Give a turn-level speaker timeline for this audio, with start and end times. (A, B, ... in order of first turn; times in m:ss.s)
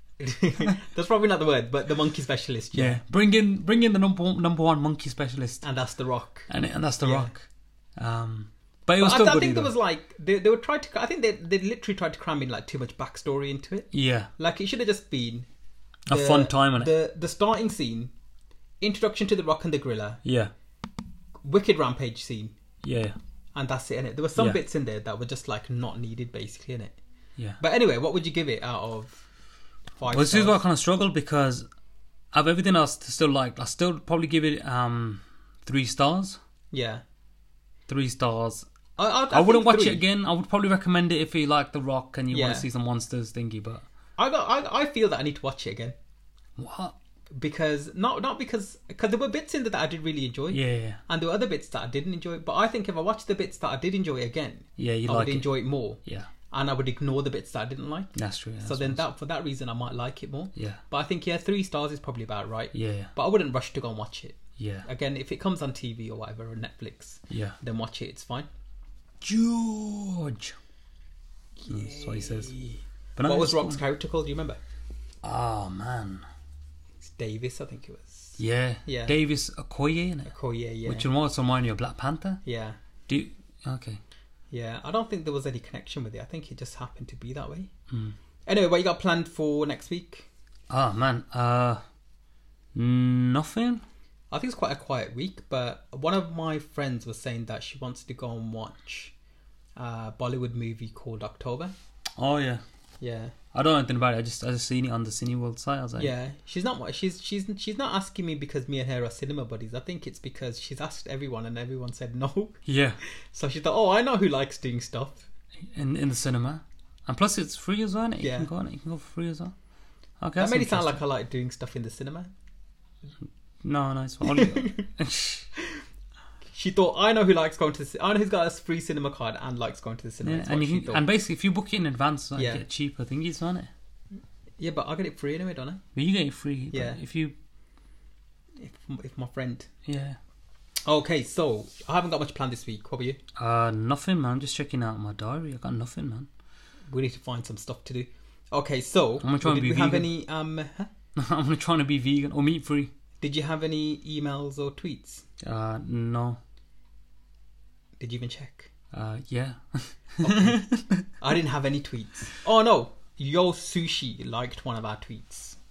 0:00.2-0:03.0 A
0:02.7-0:05.6 B
0:05.6-0:06.5 A
0:06.5-0:09.7 B
0:07.0-0:07.3 A
0:09.0-0:15.5 A
0:13.9-0:14.3 B
0:16.1-0:16.9 B
0:16.1-0:18.1 A
0:18.8-0:20.2 A
0:20.2-0:20.5 B
0:21.4-0:22.6 A
0:22.8-0:23.2 B
0:23.6-0:27.0 A
0:27.6-0:29.2 A
0:30.0-0:30.6 A
0:30.1-0:31.7 B
0:32.3-0:36.4 B
0:36.7-0:37.0 A
0:37.9-0:38.7 B
0:39.0-0:40.0 A
0:39.3-0:43.8 B
0:42.3-0:42.7 A
0:44.2-0:46.0 A
0:46.6-0:47.0 B
0:47.4-1:08.5 A
0:50.5-0:51.0 B
0:54.8-0:55.5 B
0:56.0-0:56.3 B
0:58.2-0:59.0 B
1:00.6-1:00.8 B
1:02.7-1:03.1 B
1:04.6-1:04.9 B
1:07.3-1:07.6 B
1:09.2-1:10.6 B
1:11.6-1:14.6 A
1:11.7-1:12.5 B
1:13.2-1:13.8 B
1:15.2-1:16.2 B
1:17.0-1:19.1 A
1:18.4-1:20.3 B
1:20.3-1:21.1 A
1:20.8-1:22.4 B
1:22.4-1:22.8 A
1:23.1-1:24.0 B
1:24.5-1:27.7 A
1:27.9-1:28.2 B
1:28.5-1:30.3 A
1:30.7-1:31.8 B
1:32.8-1:33.8 B
1:34.3-1:39.1 A
1:39.8-1:41.7 A
1:42.2-1:42.6 B
1:43.0-1:43.3 A
1:43.5-1:46.1 B
1:46.0-1:52.6 A
1:52.7-1:53.0 B
1:53.3-1:55.3 A
1:55.7-1:59.5 B
1:58.2-1:58.5 A
2:00.2-2:01.0 B
2:00.4-2:02.3 A
2:03.6-2:05.5 B
2:04.2-2:04.9 A
2:05.6-2:05.8 A
2:06.5-2:11.0 A
2:10.2-2:13.7 B
2:12.4-2:12.6 A
2:14.6-2:15.8 A
2:16.0-2:17.4 B
2:16.7-2:17.0 A
2:18.6-2:19.7 A
2:19.9-2:20.2 B
2:20.9-2:23.2 A
2:23.4-2:26.3 B
2:26.9-2:30.9 A
2:29.2-2:30.1 B
2:31.2-2:32.9 B
2:33.2-2:35.2 A
2:35.4-2:36.4 B
2:38.0-2:38.7 A
2:38.9-2:41.1 B
2:40.2-2:40.6 A
2:41.2-2:45.6 A